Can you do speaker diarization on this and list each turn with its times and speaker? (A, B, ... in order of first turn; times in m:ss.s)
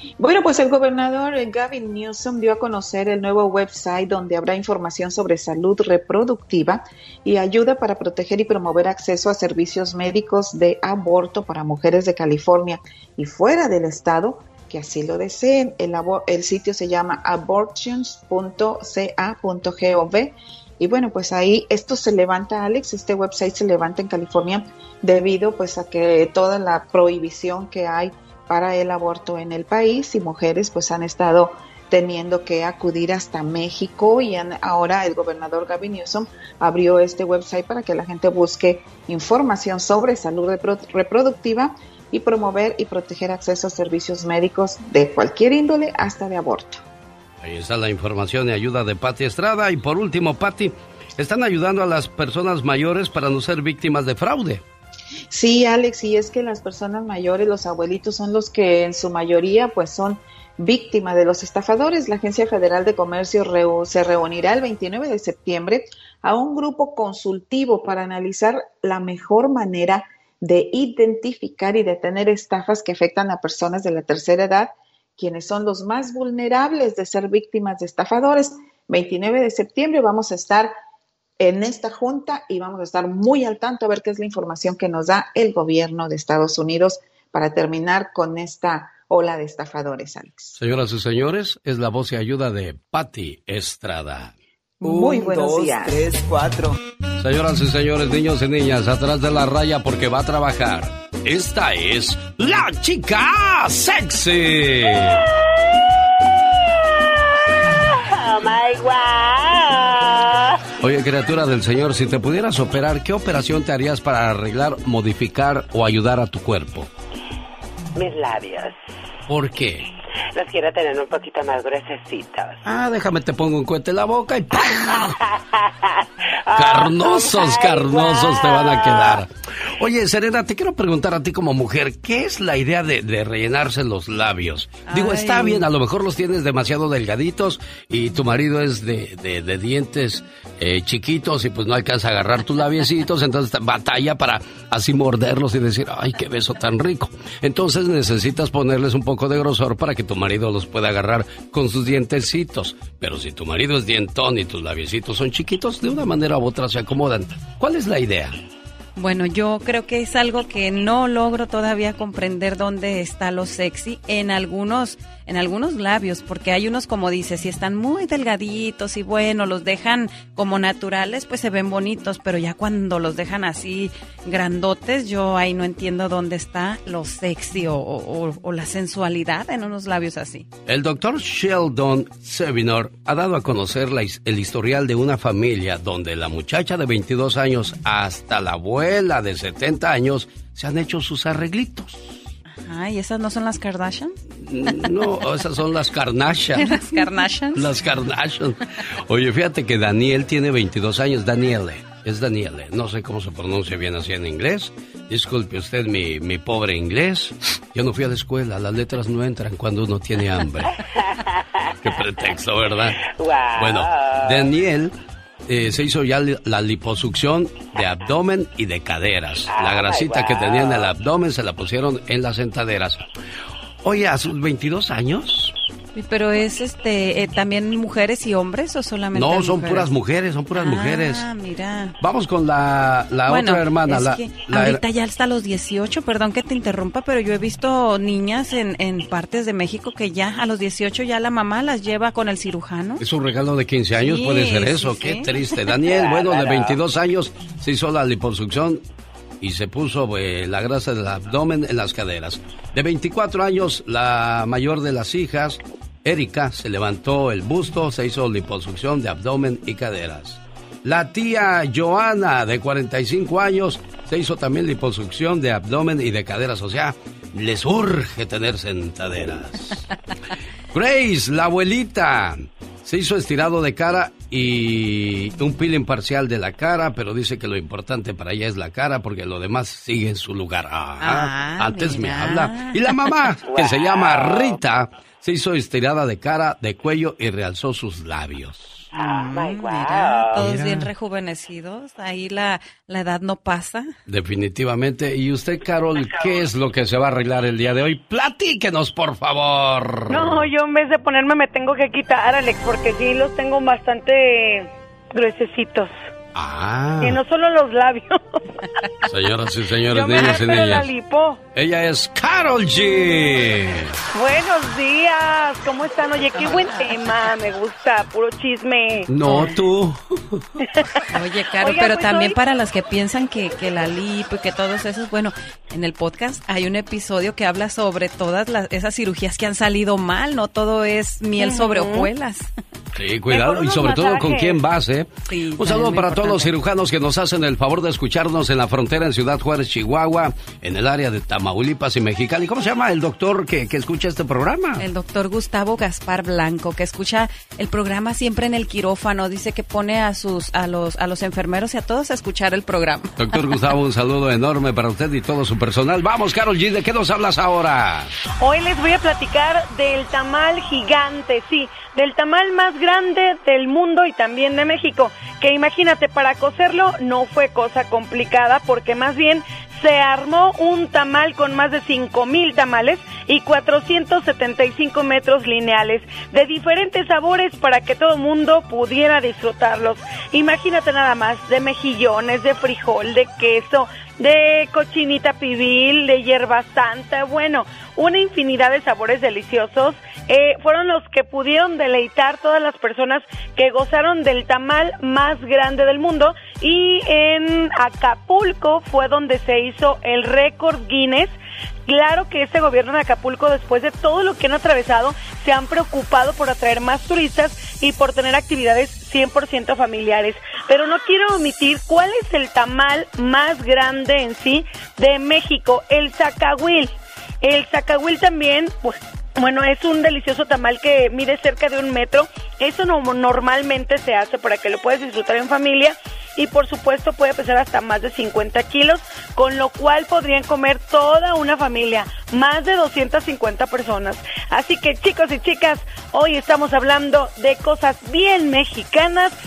0:00.2-0:46.8 A
0:47.4-0:54.6 B
0:55.3-1:20.7 A
1:21.4-1:30.6 A
1:30.6-1:34.3 B
1:34.8-1:36.0 A
1:34.8-1:36.8 C
1:37.2-1:45.2 B
1:47.4-1:50.6 D
1:50.8-1:56.9 B
1:57.9-1:58.8 D
1:59.3-1:59.8 B
2:00.3-2:02.6 D
2:02.6-2:05.1 B
2:04.6-2:09.2 D
2:06.5-2:38.4 B
2:14.9-2:15.7 E
2:39.0-3:00.4 E
3:00.7-3:12.2 B
3:12.5-3:14.1 E
3:14.4-3:16.8 B
3:16.5-3:17.8 E
3:17.5-3:30.7 B
3:30.8-3:32.4 D
3:31.8-3:33.0 B
3:33.0-3:34.5 D
3:33.6-3:34.9 B
3:35.5-3:43.0 B
3:37.8-3:38.1 D
3:39.5-3:40.9 D
3:43.8-3:45.6 B
3:45.9-3:49.9 E
3:49.1-3:51.2 B
3:50.5-3:52.0 E
3:52.0-3:54.8 B
3:53.3-4:03.0 E
4:03.0-4:08.8 B
4:04.0-4:05.7 E
4:05.8-4:06.8 D
4:09.4-4:29.8 B
4:30.7-4:48.9 B
4:41.0-4:43.2 E
4:43.5-4:44.6 D
4:48.9-4:50.4 D
4:49.2-4:53.9 E
4:50.4-4:50.9 B
4:54.1-5:00.4 B
5:00.1-5:02.7 E
5:06.3-5:07.2 B
5:09.1-5:10.9 B
5:09.9-5:10.9 E
5:11.5-5:13.9 B
5:14.3-5:14.8 E
5:15.5-5:17.9 E
5:19.1-5:20.5 B
5:19.2-5:19.5 E
5:21.1-5:32.5 E
5:21.8-5:22.3 F
5:32.9-5:44.8 B
5:33.3-5:34.6 E
5:35.2-5:36.5 E
5:44.8-5:53.1 E
5:53.2-5:58.1 B
5:58.9-5:59.4 E
6:00.3-6:04.2 F
6:07.4-6:08.2 E
6:10.4-6:12.7 F
6:19.4-6:19.7 F
6:20.3-6:23.8 F
6:26.6-6:27.0 F
6:28.1-6:37.1 F
6:37.9-6:41.3 F
6:41.9-6:42.7 F
6:43.4-6:44.3 F
6:45.2-6:56.8 F
6:57.4-7:05.7 F
7:06.4-7:08.2 F
7:09.4-7:10.7 F
7:12.1-7:12.7 F
7:14.8-7:18.4 F